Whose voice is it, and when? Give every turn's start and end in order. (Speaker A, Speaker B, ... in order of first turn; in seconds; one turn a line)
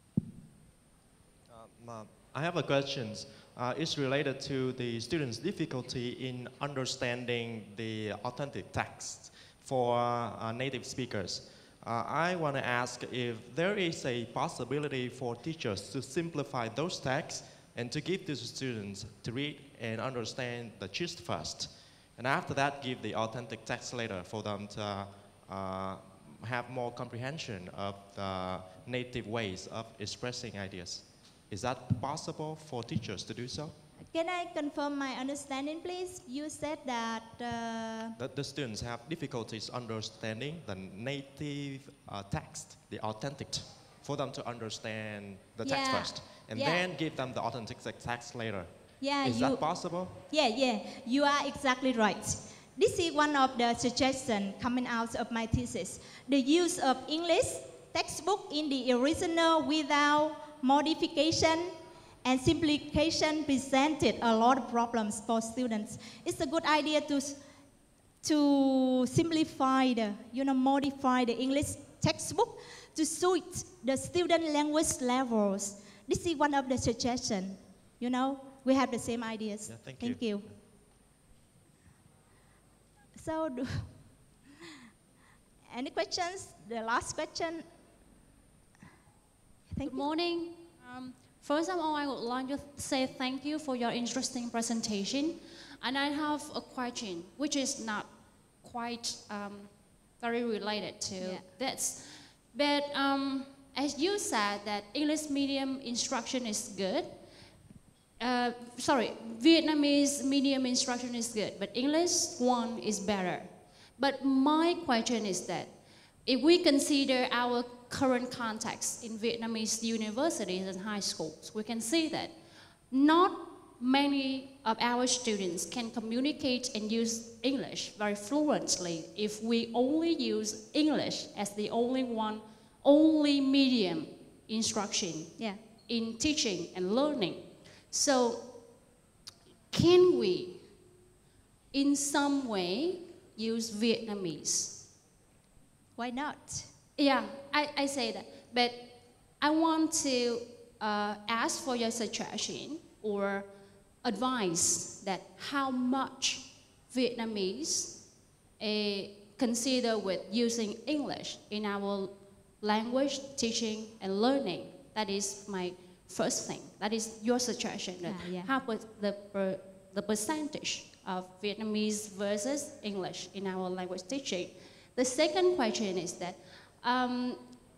Speaker A: 1.5-33.8
Speaker B: 34.1-38.1
Speaker A: 38.2-50.2
Speaker B: 45.6-46.9
Speaker B: 49.0-61.7
Speaker B: 62.2-67.4
Speaker B: 68.2-80.5
Speaker A: 79.6-80.6
Speaker B: 83.2-83.9
Speaker B: 85.7-87.6
Speaker B: 89.7-90.1
Speaker C: 89.8-107.2
Speaker C: 108.2-122.4
Speaker C: 122.9-138.7
Speaker B: 135.4-135.7
Speaker C: 139.7-140.7
Speaker C: 141.7-144.9
Speaker B: 146.0-146.7
Speaker C: 147.0-153.5
Speaker C: 154.0-177.4
Speaker B: 168.0-168.5